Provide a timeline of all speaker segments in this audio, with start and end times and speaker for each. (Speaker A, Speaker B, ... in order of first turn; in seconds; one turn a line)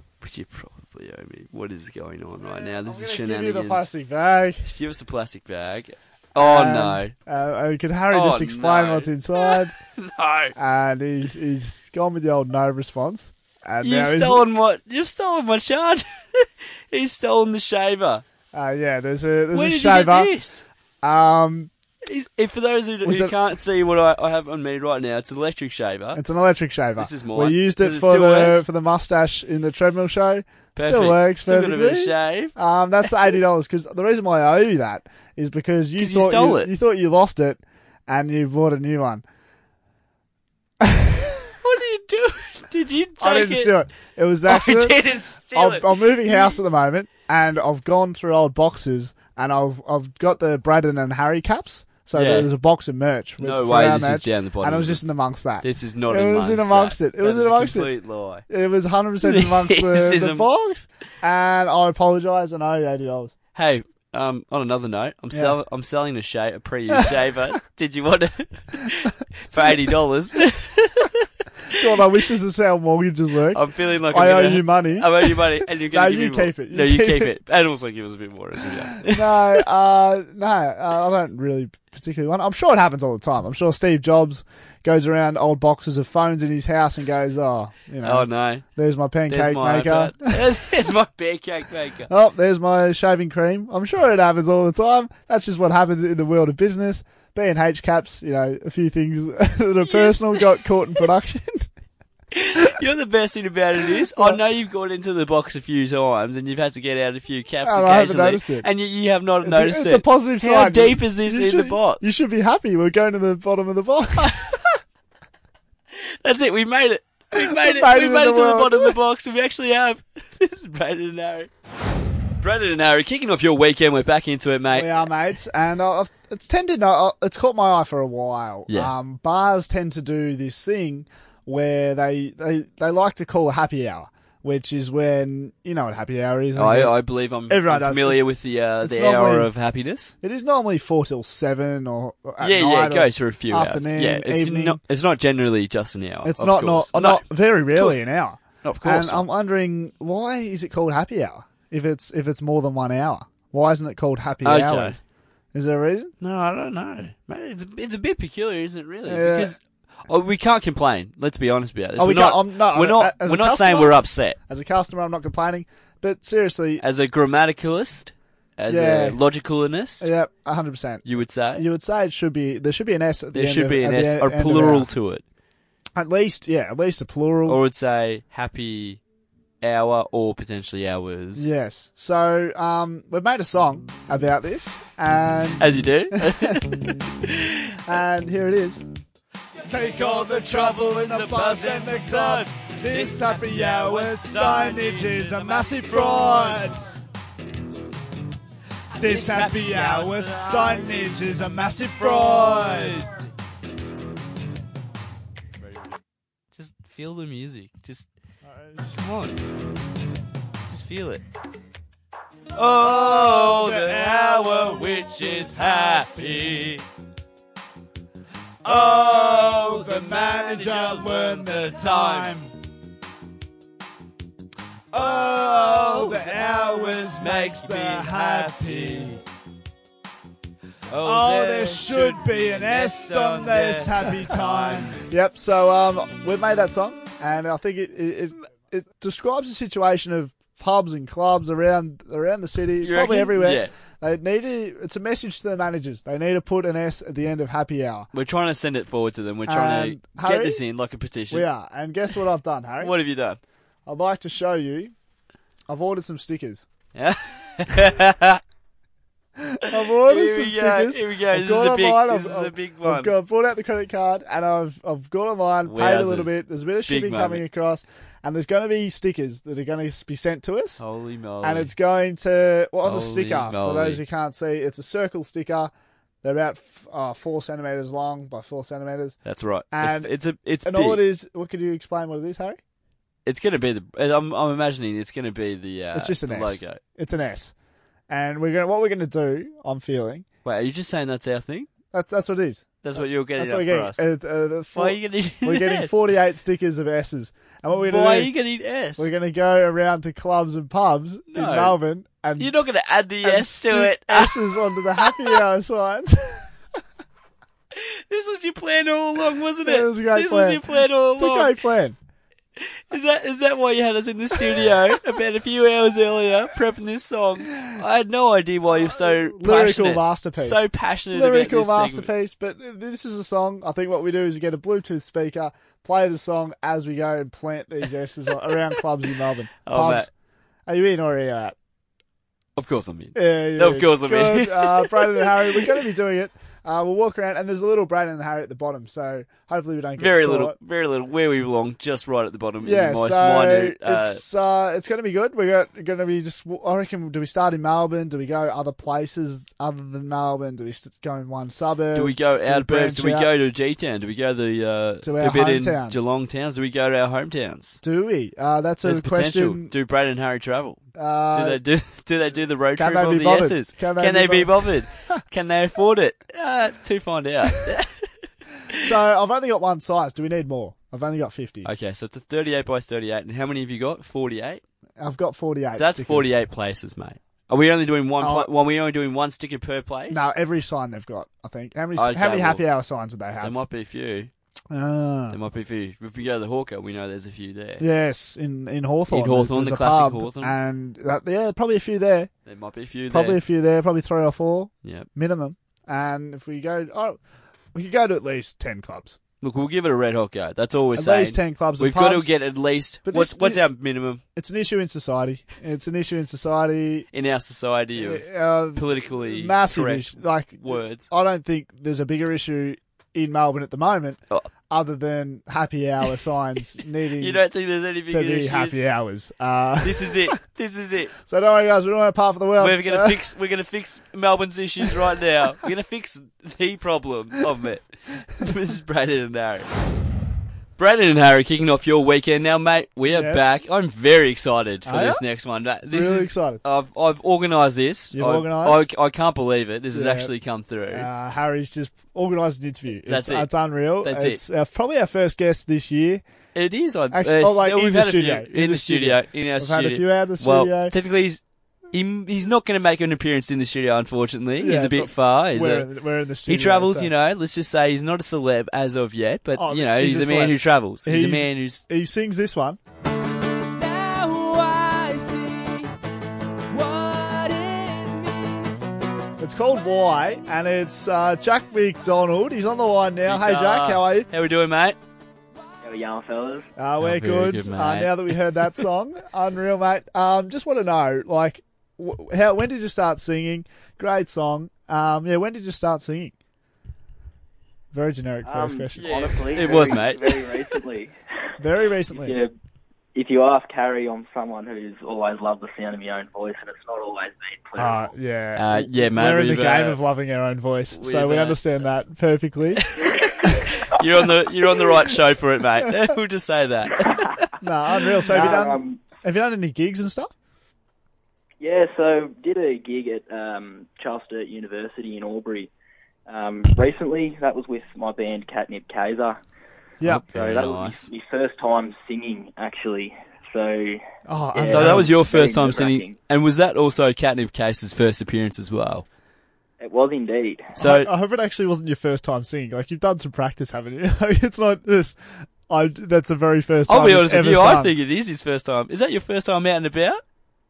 Speaker A: 0.2-3.9
Speaker B: 2.4-4.7
Speaker A: 4.6-7.1
Speaker B: 6.4-9.7
Speaker A: 8.1-10.5
Speaker B: 10.6-14.4
Speaker A: 13.8-18.2
Speaker B: 18.5-20.3
Speaker A: 19.5-20.6
Speaker B: 21.0-21.7
Speaker A: 22.0-26.2
Speaker B: 23.0-23.4
Speaker B: 26.1-39.2
Speaker A: 27.0-28.6
Speaker A: 30.8-32.5
Speaker A: 36.0-36.7
Speaker B: 40.8-41.5
Speaker A: 41.6-43.8
Speaker B: 43.2-45.0
Speaker A: 44.5-46.6
Speaker B: 45.5-57.9
Speaker A: 52.1-52.5
Speaker A: 53.4-55.0
Speaker A: 55.6-58.5
Speaker B: 58.5-63.3
Speaker A: 59.2-60.5
Speaker A: 63.5-71.8
Speaker B: 71.7-77.3
Speaker A: 73.5-79.6
Speaker B: 79.0-90.4
Speaker A: 88.0-88.6
Speaker A: 89.3-92.1
Speaker B: 92.1-101.7
Speaker A: 99.9-100.4
Speaker A: 102.3-112.0
Speaker B: 103.9-104.4
Speaker B: 107.6-108.7
Speaker B: 109.4-114.4
Speaker A: 114.2-114.7
Speaker A: 115.9-121.5
Speaker B: 117.3-119.0
Speaker A: 122.4-125.0
Speaker B: 124.7-136.9
Speaker A: 136.6-140.2
Speaker B: 137.5-138.3
Speaker B: 138.8-139.5
Speaker B: 140.2-144.8
Speaker A: 142.4-148.0
Speaker B: 146.2-155.0
Speaker A: 148.6-149.3
Speaker A: 154.4-155.0
Speaker B: 155.5-156.1
Speaker A: 156.2-164.4
Speaker B: 159.1-159.6
Speaker B: 162.0-166.8
Speaker A: 166.8-170.1
Speaker B: 168.7-169.2
Speaker B: 170.0-174.9
Speaker A: 171.1-171.7
Speaker A: 173.3-175.2
Speaker B: 176.0-177.6
Speaker A: 177.5-179.0
Speaker A: 179.6-181.5
Speaker B: 181.4-187.0
Speaker A: 185.6-187.6
Speaker B: 187.7-188.8
Speaker B: 189.6-197.0
Speaker A: 189.8-196.7
Speaker B: 199.0-203.1
Speaker A: 199.0-201.4
Speaker A: 202.0-203.2
Speaker A: 206.6-208.1
Speaker B: 208.4-209.0
Speaker A: 208.9-209.4
Speaker A: 210.7-211.2
Speaker A: 212.5-216.8
Speaker B: 212.8-214.9
Speaker A: 218.6-222.4
Speaker B: 218.7-222.5
Speaker A: 224.9-229.2
Speaker B: 225.0-229.2
Speaker A: 230.9-235.0
Speaker B: 231.0-248.1
Speaker A: 242.8-243.7
Speaker A: 248.1-251.5
Speaker B: 249.5-250.6
Speaker B: 251.3-252.9
Speaker A: 252.8-253.4
Speaker B: 253.9-254.9
Speaker B: 255.7-256.6
Speaker A: 256.9-258.4
Speaker B: 259.4-270.8
Speaker A: 259.7-263.1
Speaker A: 265.6-266.3
Speaker A: 266.9-267.4
Speaker A: 270.8-271.7
Speaker B: 271.4-275.7
Speaker A: 272.8-274.0
Speaker B: 276.2-279.2
Speaker A: 279.2-281.0
Speaker B: 279.7-280.1
Speaker B: 280.6-282.6
Speaker A: 283.3-286.8
Speaker B: 285.9-287.5
Speaker B: 288.1-290.2
Speaker A: 290.4-291.7
Speaker B: 291.9-298.3
Speaker A: 292.8-294.1
Speaker A: 294.8-296.1
Speaker A: 297.7-299.1
Speaker B: 299.0-302.5
Speaker A: 301.3-301.8
Speaker A: 302.4-305.3
Speaker B: 303.2-306.4
Speaker A: 307.7-311.6
Speaker B: 309.6-310.6
Speaker B: 311.1-312.0
Speaker A: 312.6-322.1
Speaker B: 318.9-330.1
Speaker A: 329.6-330.1
Speaker B: 330.7-331.6
Speaker A: 332.6-335.8
Speaker B: 333.1-340.6
Speaker A: 340.0-344.2
Speaker B: 342.6-353.3
Speaker A: 351.9-357.8
Speaker B: 355.0-356.0
Speaker B: 357.8-359.8
Speaker A: 358.8-360.8
Speaker B: 360.9-361.6
Speaker A: 361.3-368.1
Speaker B: 362.8-364.5
Speaker B: 368.8-371.7
Speaker A: 371.6-374.6
Speaker B: 375.0-376.3
Speaker A: 375.7-380.3
Speaker B: 378.2-378.5
Speaker B: 380.1-383.6
Speaker A: 382.0-382.6
Speaker A: 383.4-384.3
Speaker B: 384.7-385.4
Speaker A: 385.3-387.8
Speaker B: 387.8-392.3
Speaker A: 389.1-390.6
Speaker A: 392.5-393.4
Speaker B: 393.1-397.2
Speaker B: 397.7-399.2
Speaker A: 399.4-404.2
Speaker B: 400.9-402.3
Speaker B: 403.1-403.6
Speaker B: 404.4-407.1
Speaker A: 407.1-411.1
Speaker B: 408.0-417.4
Speaker A: 417.2-418.8
Speaker B: 418.1-420.3
Speaker A: 419.8-421.1
Speaker B: 421.2-423.2
Speaker A: 422.6-429.7
Speaker A: 430.8-441.1
Speaker B: 433.1-433.6
Speaker B: 434.9-435.2
Speaker B: 435.9-436.6
Speaker B: 438.1-438.9
Speaker B: 439.9-440.3
Speaker B: 440.9-446.2
Speaker A: 443.1-443.5
Speaker A: 444.0-444.4
Speaker A: 446.6-455.9
Speaker B: 447.1-450.9
Speaker B: 454.6-457.1
Speaker A: 456.5-461.8
Speaker B: 459.6-462.8
Speaker A: 463.6-465.9
Speaker A: 466.7-468.8
Speaker B: 469.4-474.3
Speaker A: 473.2-475.0
Speaker C: 475.8-476.7
Speaker B: 476.8-486.3
Speaker A: 477.0-478.7
Speaker B: 487.9-490.0
Speaker C: 488.4-491.1
Speaker A: 489.0-490.6
Speaker B: 491.6-492.4
Speaker C: 492.1-492.5
Speaker C: 493.1-498.1
Speaker B: 497.8-502.8
Speaker A: 498.6-500.0
Speaker A: 500.9-501.6
Speaker A: 502.9-507.2
Speaker C: 503.2-503.5
Speaker C: 507.0-507.5
Speaker B: 507.6-510.3
Speaker C: 508.3-509.0
Speaker C: 511.6-515.7
Speaker C: 516.3-519.4
Speaker B: 520.0-520.2
Speaker A: 520.0-521.1
Speaker C: 520.3-524.0
Speaker B: 524.3-525.1
Speaker C: 524.5-526.2
Speaker A: 524.6-529.1
Speaker C: 529.8-530.7
Speaker B: 530.8-537.9
Speaker A: 530.8-531.1
Speaker A: 536.9-540.2